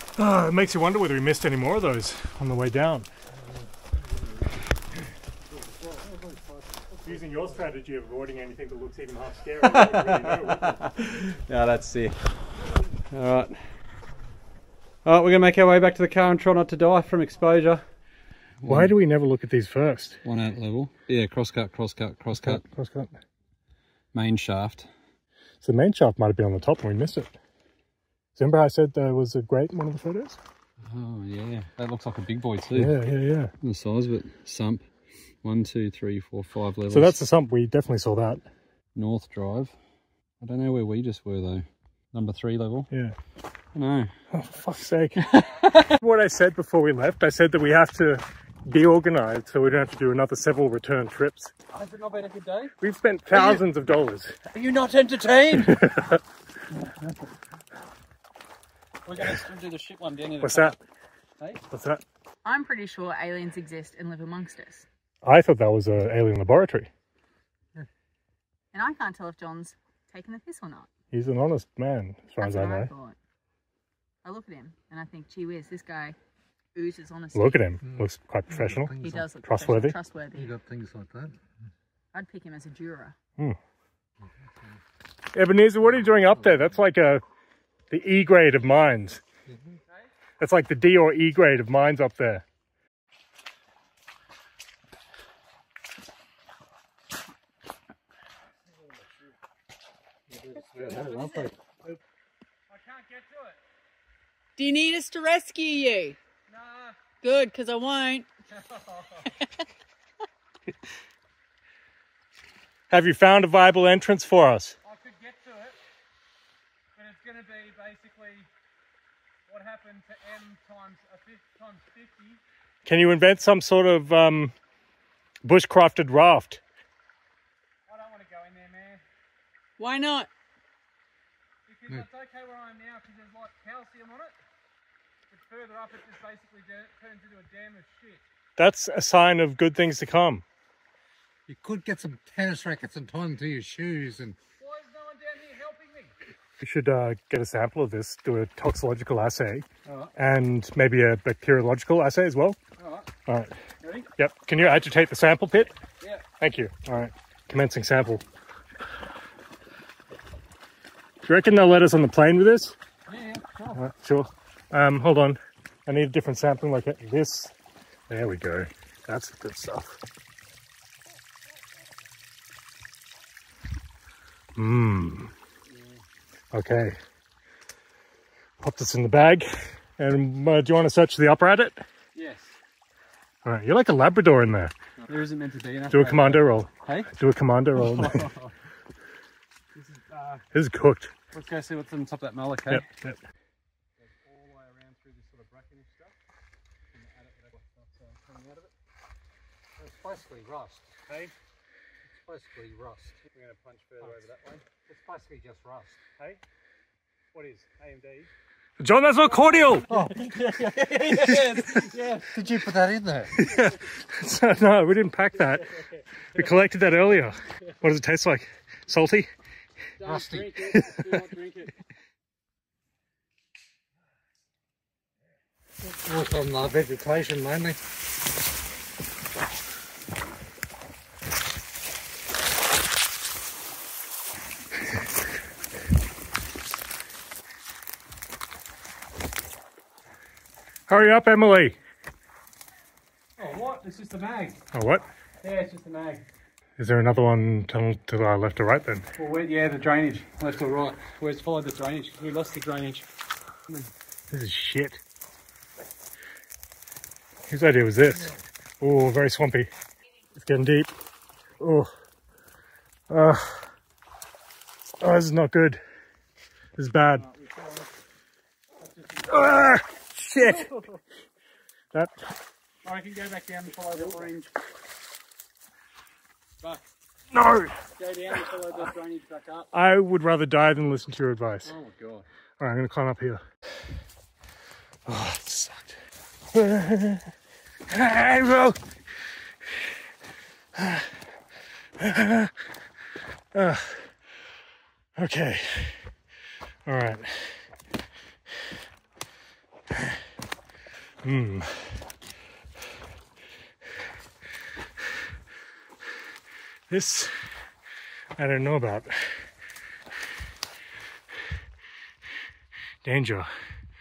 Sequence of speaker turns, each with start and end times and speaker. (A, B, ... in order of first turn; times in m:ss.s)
0:00.2-0:03.1 A
0:03.4-0:03.7 B
0:05.8-0:07.4 B
0:07.0-0:10.8 A
0:09.6-0:12.2 C
0:13.1-0:13.6 C
0:15.0-0:17.8 C
0:18.6-0:18.9 C
0:18.7-0:20.2 A
0:20.2-0:22.6 C
0:22.4-0:23.1 A
0:24.1-0:24.9 C
0:25.6-0:27.4 A
0:28.4-0:30.4 A
0:30.8-0:33.0 C
0:32.8-0:33.5 A
0:33.6-0:34.8 C
0:35.4-0:37.2 C
0:36.9-0:38.4 A
0:39.0-0:39.7 C
0:40.4-0:42.9 C
0:43.8-0:44.1 C
0:44.3-0:51.5 A
0:45.2-0:45.9 C
0:51.7-0:52.7 C
0:52.8-0:54.4 A
0:53.3-0:53.6 C
0:54.5-0:55.9 C
0:55.6-0:56.2 A
0:59.1-1:00.8 C
1:00.4-1:00.8 A
1:01.7-1:02.0 A
1:02.4-1:04.8 D
1:05.2-1:06.9 A
1:08.7-1:10.9 D
1:11.1-1:12.9 A
1:12.4-1:13.2 D
1:14.2-1:16.2 D
1:16.8-1:17.6 D
1:17.3-1:20.0 A
1:17.8-1:19.3 B
1:19.0-1:20.5 D
1:20.3-1:21.4 B
1:22.1-1:23.2 D
1:24.2-1:24.8 B
1:25.3-1:27.2 A
1:27.9-1:29.2 A
1:29.5-1:29.8 B
1:30.4-1:32.4 A
1:40.3-1:41.6 B
1:40.7-1:41.3 C
1:42.7-1:43.6 C
1:44.6-1:46.2 D
1:46.5-1:47.0 C
1:47.2-1:48.3 D
1:48.5-1:49.3 C
1:52.9-1:54.8 A
1:54.8-1:55.8 C
1:57.0-1:58.5 C
1:59.5-2:02.4 C
2:02.8-2:04.5 A
2:05.4-2:06.6 A
2:07.9-2:09.0 C
2:09.8-2:10.3 D
2:11.7-2:14.4 C
2:15.3-2:18.2 C
2:18.6-2:20.4 A
2:21.5-2:24.4 B
2:24.6-2:26.2 C
2:26.6-2:32.6 A
2:29.9-2:30.1 C
2:32.8-2:33.1 C
2:33.3-2:33.5 A
2:33.8-2:34.1 C
2:34.2-2:35.7 A
2:36.4-2:38.2 A
2:41.2-2:42.8 A
2:43.1-2:43.8 C
2:43.8-2:47.5 A
2:48.1-2:50.0 A
2:54.6-2:55.3 A
2:55.7-2:56.0 C
2:56.5-2:57.0 A
2:58.6-3:01.8 A
3:02.2-3:02.6 C
3:03.4-3:04.7 A
3:05.1-3:07.1 C
3:05.9-3:08.3 A
3:07.8-3:08.5 C
3:09.8-3:10.4 C
3:10.5-3:11.1 A
3:11.3-3:12.9 C
3:12.7-3:13.2 A
3:14.0-3:16.2 C
3:16.9-3:18.7 C
3:19.8-3:21.0 B
3:21.1-3:21.3 C
3:22.1-3:23.2 B
3:23.3-3:24.7 C
3:24.0-3:26.0 B
3:27.3-3:28.3 C
3:28.8-3:29.9 A
3:29.3-3:32.4 C
3:29.9-3:30.3 B
3:31.1-3:31.4 B
3:32.3-3:33.4 B
3:33.4-3:35.7 A
3:36.3-3:39.3 A
3:40.0-3:41.7 C
3:40.0-3:41.1 B
3:45.8-3:47.8 B
4:00.9-4:01.8 A
4:03.4-4:04.6 C
4:04.7-4:05.0 A
4:05.4-4:06.2 C
4:06.8-4:09.1 A
4:09.2-4:13.1 C
4:14.3-4:15.0 A
4:17.5-4:19.7 A
4:20.4-4:20.9 A
4:21.6-4:21.9 A
4:23.1-4:23.7 A
4:25.0-4:25.8 A
4:26.8-4:27.3 A
4:27.2-4:27.9 C
4:28.8-4:29.6 C
4:29.3-4:30.7 A
4:30.4-4:31.0 C
4:31.9-4:32.3 A
4:32.8-4:34.5 C
4:37.3-4:37.8 A
4:38.0-4:39.7 C
4:39.7-4:41.7 A
4:41.6-4:42.2 C
4:42.6-4:43.4 A
4:45.1-4:46.0 A
4:46.5-4:47.3 A
4:47.9-4:48.8 A
4:50.8-4:51.1 A
4:52.0-4:52.5 A
4:53.5-4:54.1 A
4:55.2-4:56.0 A
4:56.9-4:57.6 A
5:01.2-5:02.0 A
5:06.9-5:07.3 A
5:08.4-5:09.4 A
5:13.0-5:13.5 A